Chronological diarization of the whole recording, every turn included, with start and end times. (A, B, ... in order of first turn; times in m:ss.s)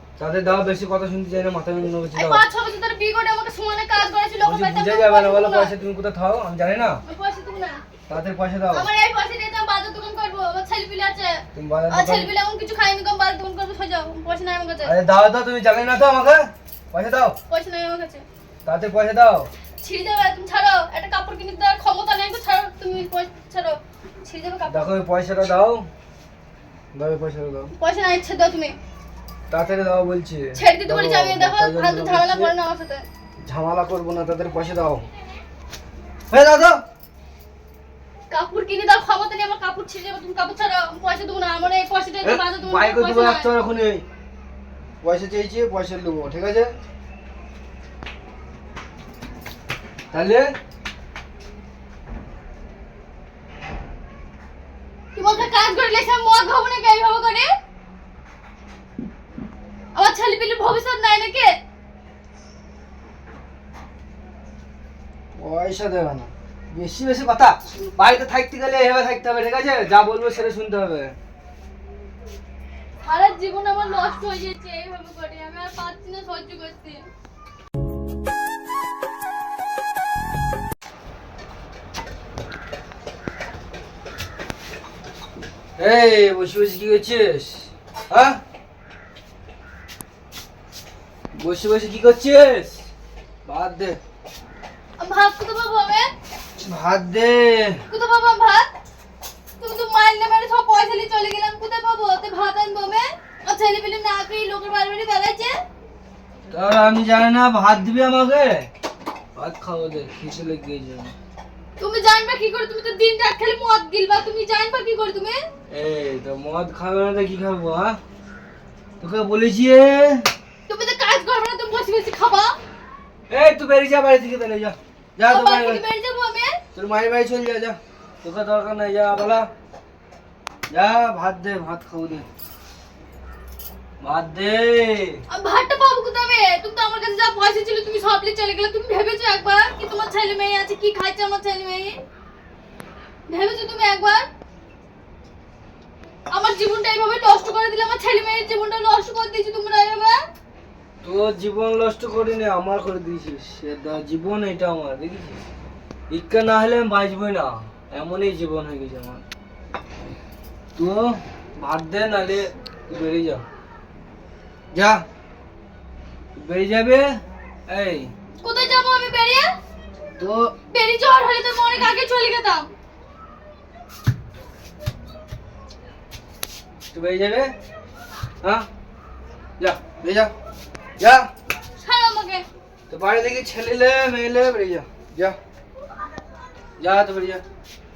0:00.2-0:02.4 A
0:02.1-0:05.7 B
0:04.4-0:07.0 A
0:07.0-0:07.8 B
0:08.1-0:08.9 A
0:08.7-0:15.0 B
0:11.5-0:12.3 A
0:14.8-0:17.4 A
0:17.5-0:18.2 B
0:18.6-0:19.5 A
0:19.8-0:24.9 B
0:24.7-0:25.9 A
0:26.9-0:27.7 A
0:27.7-0:28.8 B
0:29.5-0:32.5 A
0:30.5-0:33.0 B
0:33.4-0:35.1 A
0:36.3-0:36.8 A
0:38.3-0:43.5 B
0:42.2-0:44.0 A
0:45.0-0:46.7 A
0:50.1-0:50.5 A
0:55.1-0:57.5 B
0:59.9-1:01.6 B
1:05.3-1:11.2 A
1:13.0-1:17.1 B
1:25.8-1:28.4 A
1:31.3-1:32.9 A
1:33.4-1:34.0 A
1:35.0-1:36.1 B
1:36.6-1:37.8 A
1:37.9-1:38.7 B
1:39.6-1:45.6 B
1:46.5-1:48.7 A
1:49.3-1:51.1 A
1:51.8-1:55.4 B
1:55.7-1:58.0 A
1:59.0-2:00.3 A
2:00.7-2:02.5 B
2:03.3-2:05.8 A
2:05.3-2:06.6 B
2:06.7-2:09.5 A
2:10.7-2:12.3 A
2:14.0-2:15.2 A
2:15.3-2:22.0 B
2:23.3-2:24.3 B
2:26.3-2:30.2 B
2:31.0-2:35.4 A
2:36.1-2:39.2 A
2:40.8-2:43.4 A
2:44.7-2:45.0 A
2:46.4-2:48.1 A
2:48.4-2:49.5 B
2:50.2-2:50.5 A
2:50.7-2:52.7 B
2:56.9-2:57.5 A
2:58.4-2:58.7 A
2:59.6-3:00.3 A
3:01.0-3:01.3 A
3:01.8-3:02.4 B
3:02.9-3:05.4 A
3:06.8-3:07.4 A